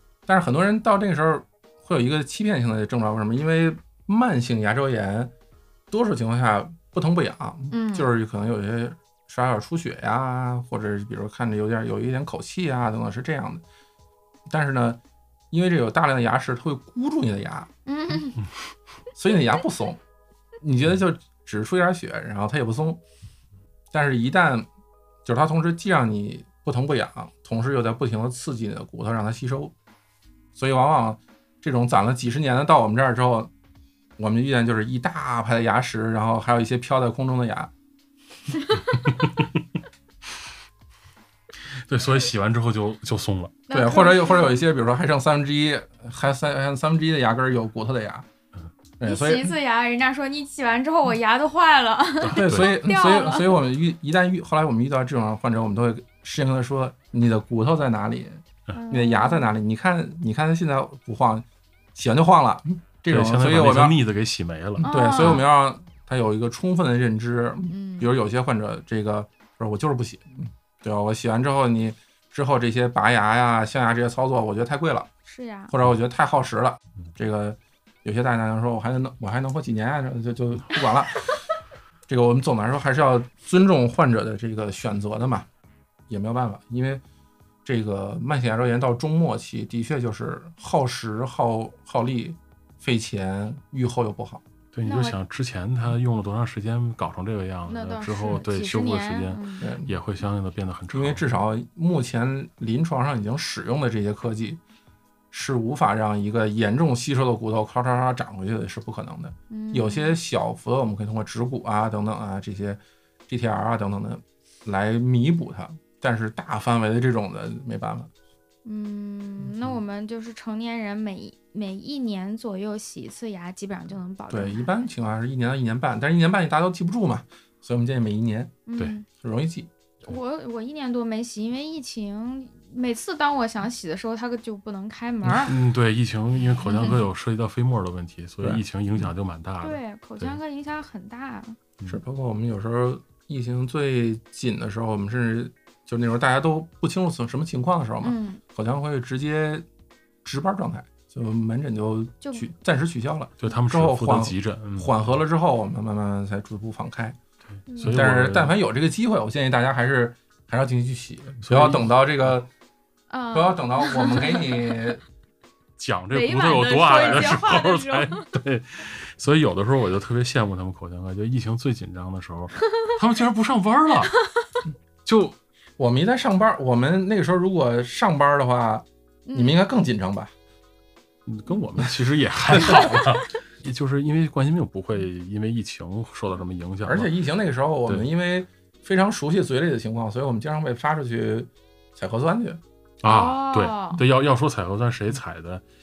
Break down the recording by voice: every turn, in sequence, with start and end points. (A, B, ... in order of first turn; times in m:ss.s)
0:00.3-0:05.3 A
0:05.9-0:13.6 A
0:07.7-0:08.1 B
0:14.5-0:15.0 A
0:15.5-0:17.7 A
0:17.8-0:18.4 B
0:19.2-0:20.0 A
0:20.6-0:23.0 A
0:23.9-0:24.7 A
0:25.2-0:29.7 A
0:30.5-0:33.5 A
0:34.2-0:37.7 A
0:39.0-0:39.5 C
0:41.9-0:43.6 C
0:43.7-0:44.6 B
0:43.7-0:48.3 A
0:49.0-0:49.5 A
0:49.0-0:53.6 B
0:52.2-0:52.7 C
0:52.3-1:04.0 A
0:58.7-0:59.5 B
1:03.1-1:05.4 C
1:04.8-1:15.1 A
1:04.8-1:05.4 B
1:07.7-1:08.1 B
1:15.2-1:15.7 B
1:15.7-1:21.2 A
1:22.1-1:25.5 A
1:26.1-1:27.0 A
1:27.6-1:34.4 A
1:34.7-1:41.2 C
1:34.8-1:35.2 B
1:37.7-1:39.6 B
1:39.6-1:40.0 A
1:40.9-1:44.6 A
1:45.3-1:58.1 A
1:49.5-1:50.2 B
1:58.6-2:04.8 B
2:04.3-2:08.6 A
2:08.7-2:09.0 B
2:09.1-2:09.7 A
2:10.0-2:15.6 B
2:15.4-2:20.4 C
2:16.6-2:17.0 B
2:19.6-2:21.6 B
2:21.8-2:29.6 A
2:28.0-2:28.4 B
2:30.2-2:37.2 A
2:32.2-2:32.5 B
2:33.4-2:34.9 C
2:37.7-2:38.0 B
2:37.7-2:38.6 C
2:37.8-2:42.5 A
2:41.4-2:41.9 C
2:43.1-2:44.9 B
2:43.3-2:45.0 A
2:45.8-2:54.2 C
2:46.1-2:48.3 B
2:47.0-2:47.3 A
2:55.0-2:55.4 C
2:55.8-3:00.3 A
2:59.3-2:59.6 B
3:01.2-3:07.1 C
3:02.5-3:03.1 A
3:06.8-3:12.6 A
3:13.0-3:15.6 C
3:13.0-3:14.0 B